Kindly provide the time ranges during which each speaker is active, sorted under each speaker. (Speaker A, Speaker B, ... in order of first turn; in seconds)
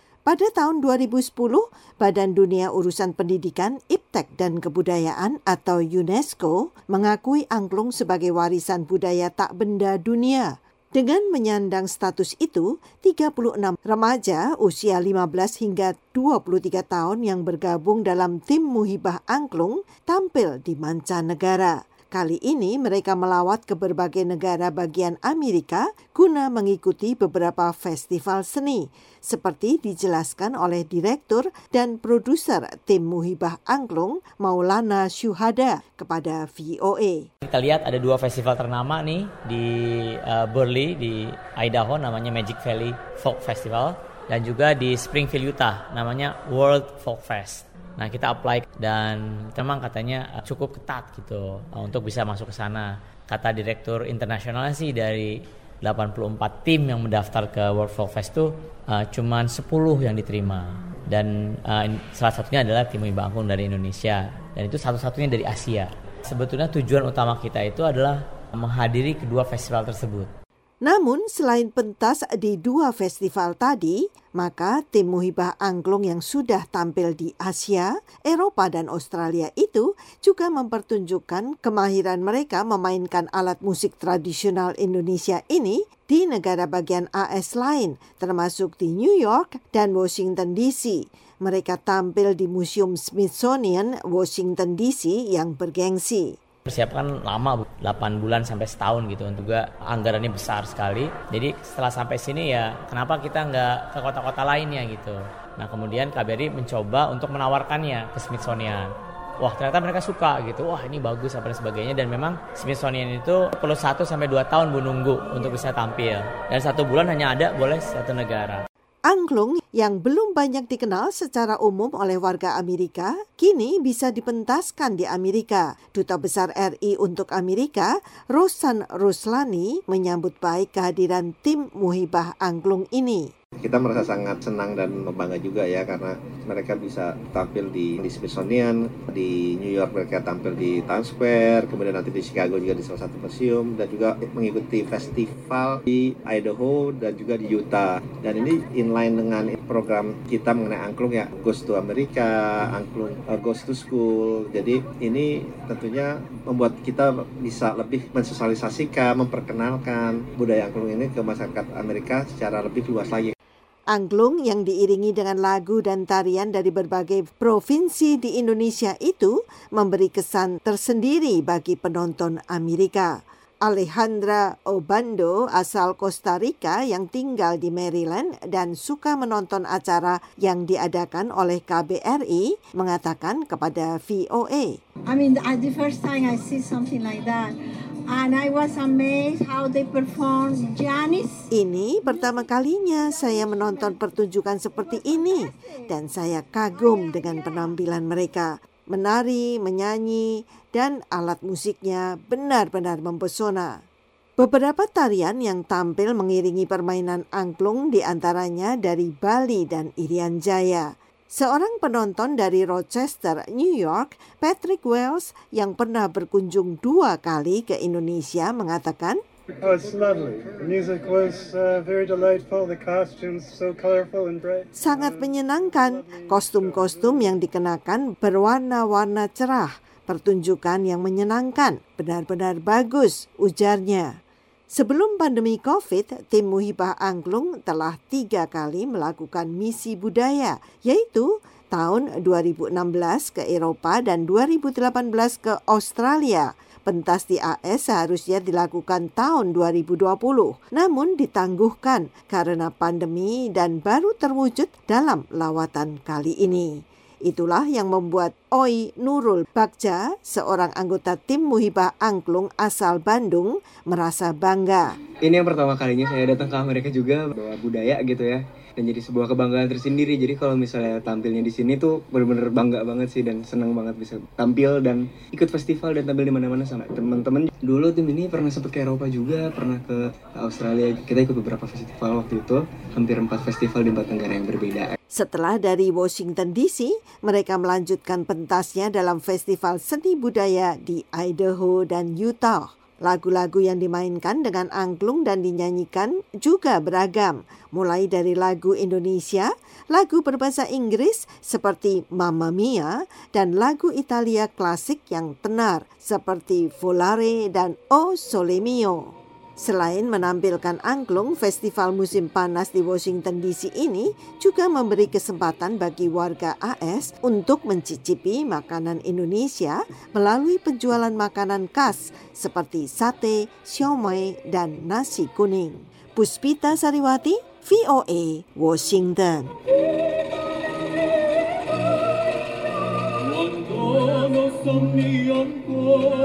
Speaker A: 0.3-37.3, 70.8-96.3, 119.1-133.3, 163.9-173.1, 173.6-184.8, 191.5-203.8, 204.4-219.2, 224.7-234.2, 234.8-264.9, 285.1-329.5
Speaker B: 37.4-70.3, 96.7-108.9, 109.4-118.6
Speaker C: 133.6-163.3
Speaker D: 185.1-191.5, 193.4-193.8, 195.0-195.8, 196.7-197.7
Speaker E: 219.6-227.2
Speaker F: 265.2-284.9, 333.6-335.8